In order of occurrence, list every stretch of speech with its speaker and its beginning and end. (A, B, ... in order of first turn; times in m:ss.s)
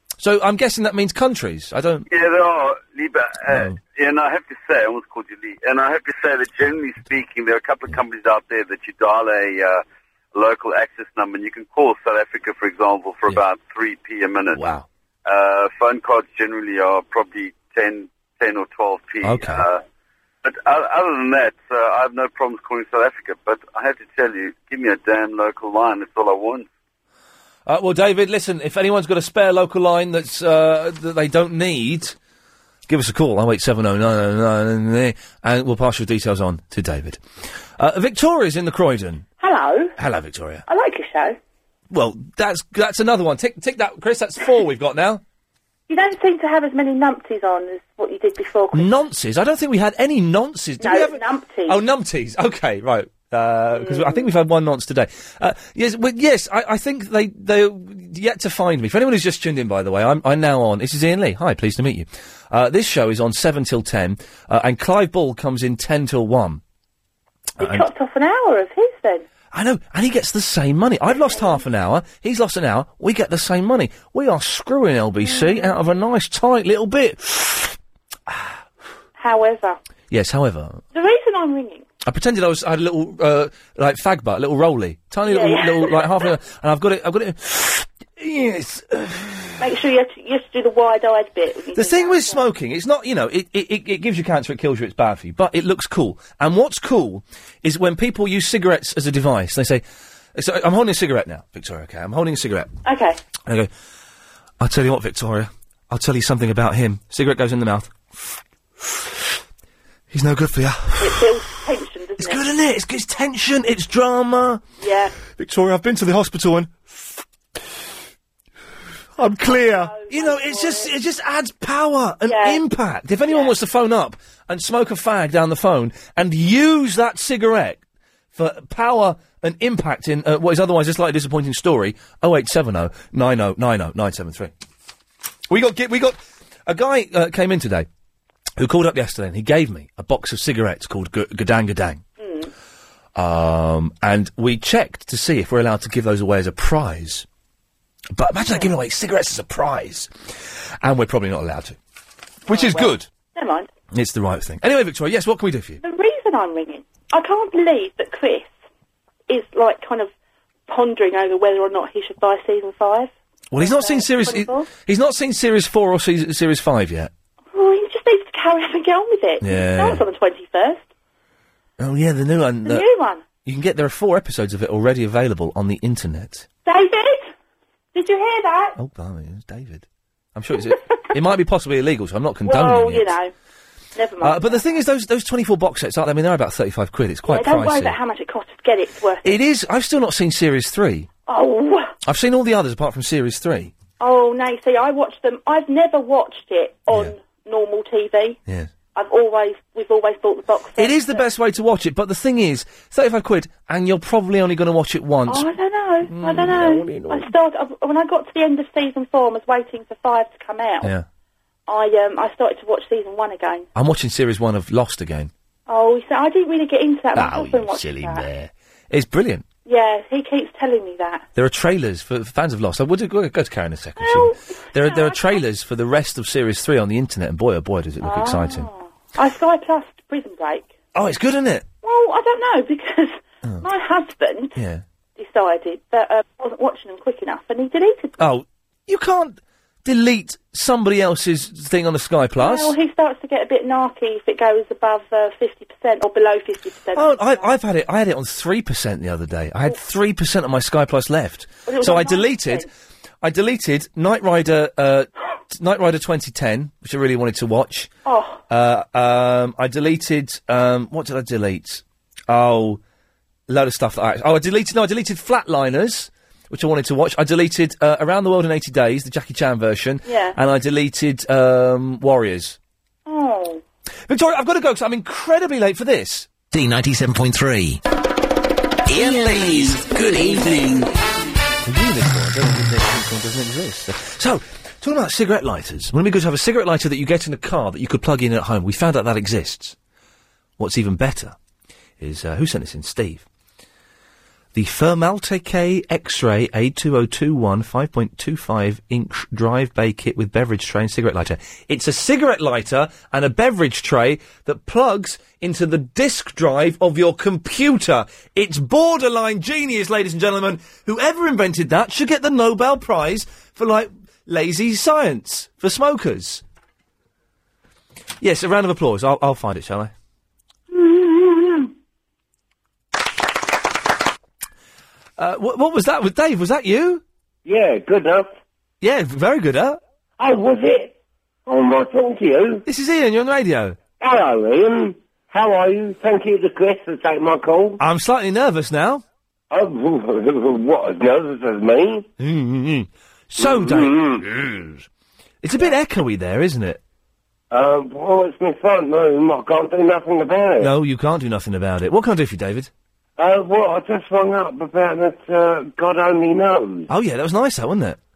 0:00.2-0:02.1 A
0:02.1-0:09.8 B
0:03.5-0:03.8 A
0:10.3-0:14.6 B
0:14.6-0:14.9 A
0:15.3-0:19.8 B
0:19.2-0:19.7 A
0:20.4-0:26.7 B
0:27.7-0:32.2 A
0:32.9-0:37.2 A
0:37.8-0:39.3 A
0:39.4-0:39.9 C
0:40.0-0:40.6 A
0:40.7-0:41.4 C
0:41.9-0:45.2 A
0:45.9-0:49.0 C
0:48.7-1:06.6 A
0:50.8-0:51.8 C
0:53.7-0:54.3 C
1:07.6-1:09.2 C
1:07.6-1:07.9 A
1:09.5-1:17.8 A
1:11.1-1:11.6 C
1:15.2-1:15.7 C
1:19.2-1:19.8 C
1:20.1-1:20.8 A
1:20.9-1:21.9 C
1:22.0-1:29.7 A
1:25.2-1:26.3 C
1:29.6-1:32.4 C
1:31.7-1:39.8 A
1:40.4-1:42.7 A
1:42.8-1:43.2 C
1:43.5-1:43.7 A
1:44.6-1:49.3 A
1:50.1-1:51.3 A
1:51.0-1:52.4 C
1:52.2-1:54.6 A
1:54.8-1:55.2 C
1:55.3-1:57.2 A
1:59.2-2:07.8 A
1:59.2-2:00.9 C
2:02.2-2:02.6 C
2:03.2-2:03.6 C
2:08.3-2:14.5 A
2:15.5-2:17.9 A
2:18.6-2:22.0 A
2:22.2-2:22.5 C
2:23.2-2:27.3 A
2:28.2-2:31.8 A
2:28.4-2:28.7 C
2:32.5-2:33.1 A
2:32.5-2:33.7 C
2:33.9-2:35.8 A
2:35.8-2:38.5 C
2:39.3-2:40.1 C
2:40.7-2:44.7 C
2:43.5-2:47.1 A
2:47.5-2:50.9 C
2:49.4-2:50.0 A
2:51.8-2:52.9 A
2:52.6-2:53.2 C
2:53.4-2:56.5 A
2:56.6-2:57.3 C
2:57.9-2:58.8 C
2:58.8-3:03.2 A
3:02.4-3:03.3 C
3:04.0-3:04.6 C
3:04.2-3:08.0 A
3:07.3-3:09.4 C
3:09.2-3:11.1 A
3:11.3-3:11.9 C
3:12.0-3:13.7 A
3:14.0-3:18.4 C
3:18.5-3:18.7 A
3:18.9-3:21.3 C
3:20.8-3:25.5 A
3:25.3-3:30.9 C
3:26.0-3:27.3 A
3:31.7-3:33.7 C
3:33.8-3:35.3 A
3:35.7-3:38.3 C
3:37.2-3:39.5 A
3:39.7-3:41.3 C
3:41.4-3:48.7 A
3:44.0-3:45.4 C
3:48.0-3:50.7 C
3:50.9-3:51.7 A
3:51.8-3:54.6 C
3:54.6-3:54.8 A
3:55.2-3:58.2 C
3:58.2-4:02.8 A
4:02.4-4:07.5 C
4:06.9-4:12.7 A
4:11.7-4:12.7 C
4:13.2-4:17.9 A
4:18.0-4:18.4 C
4:18.5-4:22.8 A
4:23.5-4:32.6 A
4:30.0-4:30.4 C
4:33.1-4:33.6 C
4:34.1-4:36.3 A
4:36.5-4:37.8 D
4:38.9-4:40.9 D
4:41.6-4:49.8 A
4:50.6-4:51.4 A
4:52.0-4:53.3 A
4:54.5-5:16.4 A
5:18.2-5:19.9 A
5:20.7-5:21.6 C
5:25.2-5:27.0 A
5:27.5-5:28.3 E
5:28.8-5:29.8 A
5:30.2-5:30.9 E
5:31.5-5:32.6 E
5:32.7-5:33.8 A
5:34.0-5:37.8 E
5:37.8-5:39.0 A
5:39.5-5:42.1 E
5:42.2-5:44.9 A
5:43.4-5:44.2 E
5:45.4-5:46.8 A
5:47.5-5:50.7 E
5:50.6-5:52.7 A
5:53.2-5:56.9 E
5:56.9-5:58.0 A